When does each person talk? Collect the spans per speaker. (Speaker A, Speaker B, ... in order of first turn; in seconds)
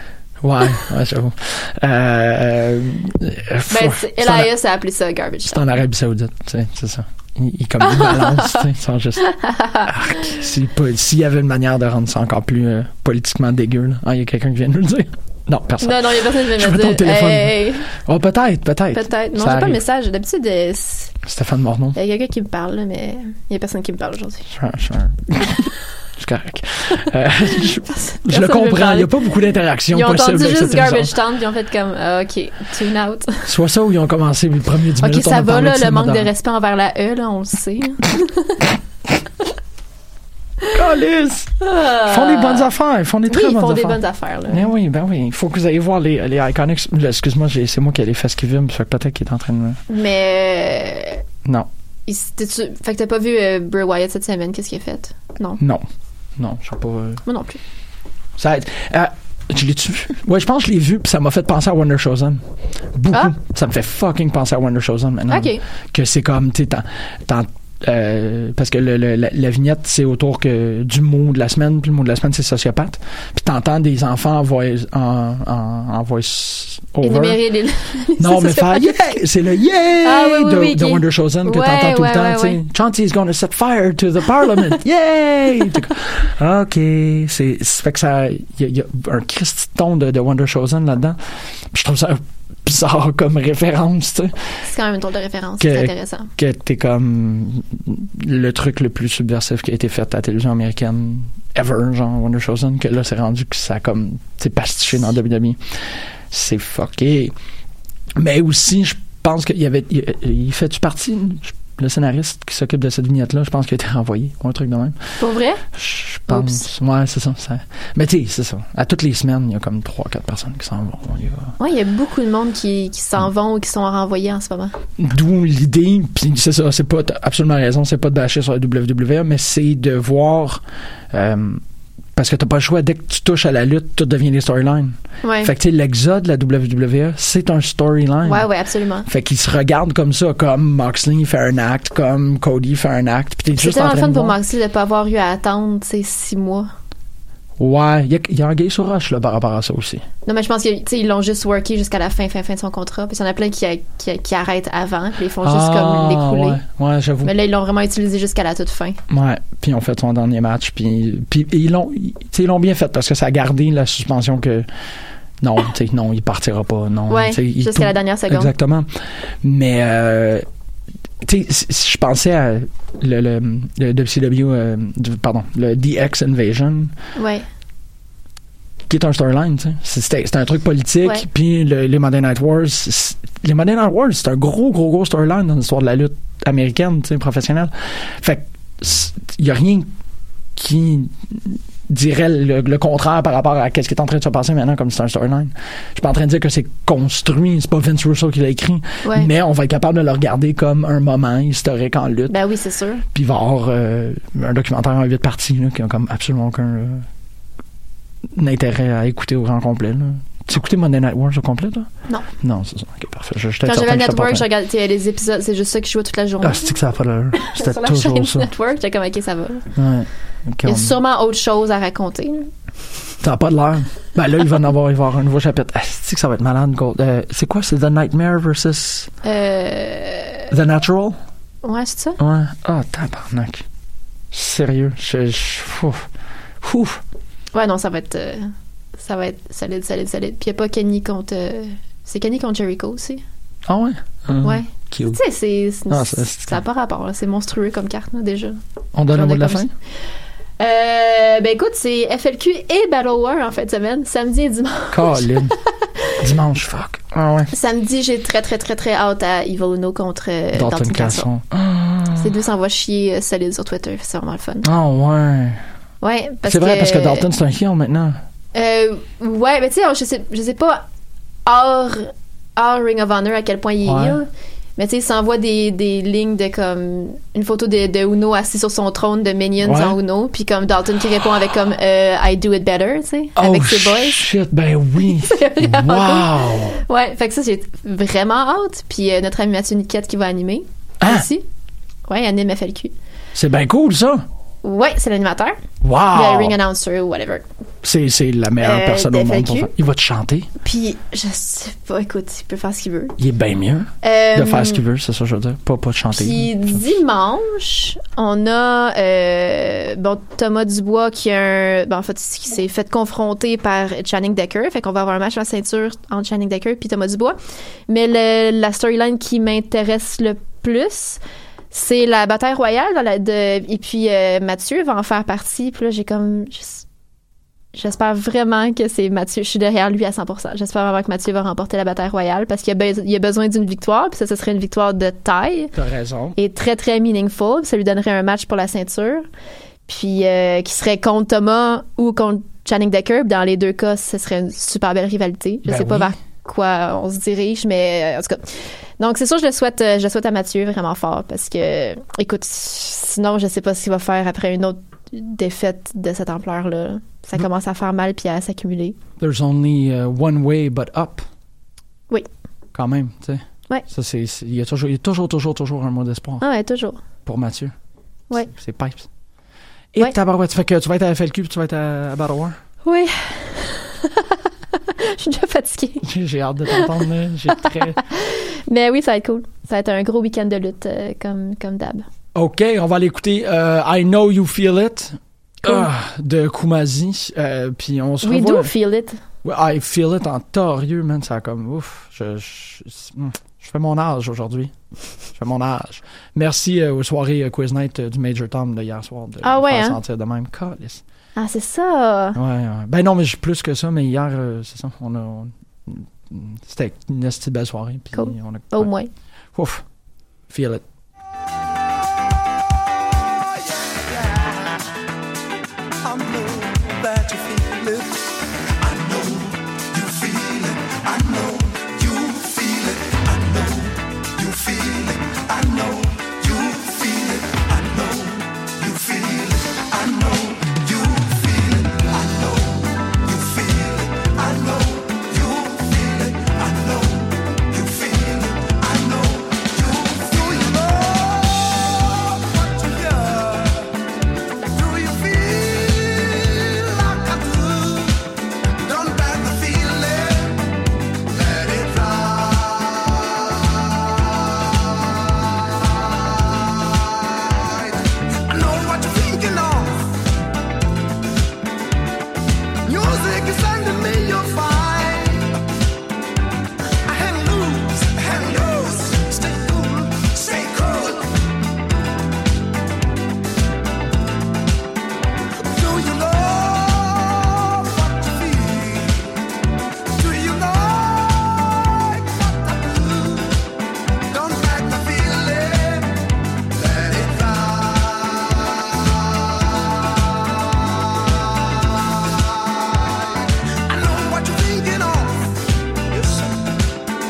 Speaker A: 0.4-4.5, 5.5-9.2, 9.8-19.8, 21.2-21.9, 24.5-31.1, 33.5-36.3, 40.7-49.8, 55.6-55.8, 56.4-57.2, 58.4-62.4, 62.9-77.4, 78.2-91.2, 91.7-94.3, 95.6-107.3, 108.2-115.1, 115.7-121.5, 125.0-131.6, 132.1-138.4, 139.1-144.3, 147.6-150.0, 155.4-157.3, 159.1-164.7, 165.4-170.4, 171.2-176.9, 178.9-189.9, 190.5-202.3, 203.1-207.1, 208.3-211.9, 212.4-214.4, 216.4-218.5, 219.8-220.9, 223.2-229.1, 230.5-231.2, 232.2-233.6, 234.3-236.1, 236.6-237.0, 243.7-245.2, 245.9-246.6, 248.9-249.7, 254.9-255.5, 256.2-257.5, 260.5-262.3, 264.6-265.6, 266.5-268.2, 273.8-274.2, 279.6-280.0, 283.4-286.8, 291.0-291.3, 293.3-294.2, 295.8-296.6, 297.8-300.5, 303.2-306.8, 335.7-336.4, 345.6-346.1, 359.2-361.2, 362.7-366.4, 367.2-367.7, 368.4-369.1, 369.9-372.6, 376.0-378.0, 382.3-388.7, 389.4-394.7, 395.3-401.0, 402.3-408.9, 409.5-409.8, 410.5-410.8
Speaker B: 3.7-5.7, 7.8-8.6, 9.2-10.3, 15.8-17.9, 18.9-21.1, 21.9-24.5, 27.9-29.1, 29.9-33.5, 35.0-38.6, 41.6-42.7, 43.3-44.7, 49.9-51.2, 52.1-55.6, 57.2-57.6, 65.3-65.6, 77.0-79.1, 80.0-82.6, 94.6-96.3, 115.2-115.6, 116.3-116.6, 121.6-124.7, 135.2-135.5, 138.2-139.1, 143.5-146.7, 150.2-156.6, 157.2-159.0, 167.1-168.5, 177.2-177.4, 199.0-199.3, 202.3-203.0, 213.6-216.7, 217.4-219.7, 220.6-222.5, 229.2-230.5, 231.6-232.2, 237.5-243.2, 244.4-248.6, 249.1-249.7, 250.6-255.3, 257.5-261.3, 262.1-264.7, 266.0-267.3, 268.5-270.9, 271.4-284.2, 285.3-291.4, 292.1-292.9, 294.6-295.6, 296.1-297.4, 298.6-299.7, 300.6-303.1, 304.0-304.8, 306.1-317.4, 317.9-321.2, 321.7-326.9, 327.7-335.7, 336.4-339.2, 339.9-359.0, 366.4-367.0, 372.8-376.1, 377.5-382.0, 388.2-389.2, 399.4-400.0, 401.4-402.4, 408.1-409.1
Speaker C: 413.6-414.8, 416.0-418.2, 418.8-443.9, 444.7-448.2, 448.8-450.6, 451.3-454.1, 455.6-460.2, 462.8-465.5, 467.1-471.3, 475.7-479.3, 480.1-483.6, 484.3-486.2, 486.7-488.9, 492.1-495.6, 496.1-496.5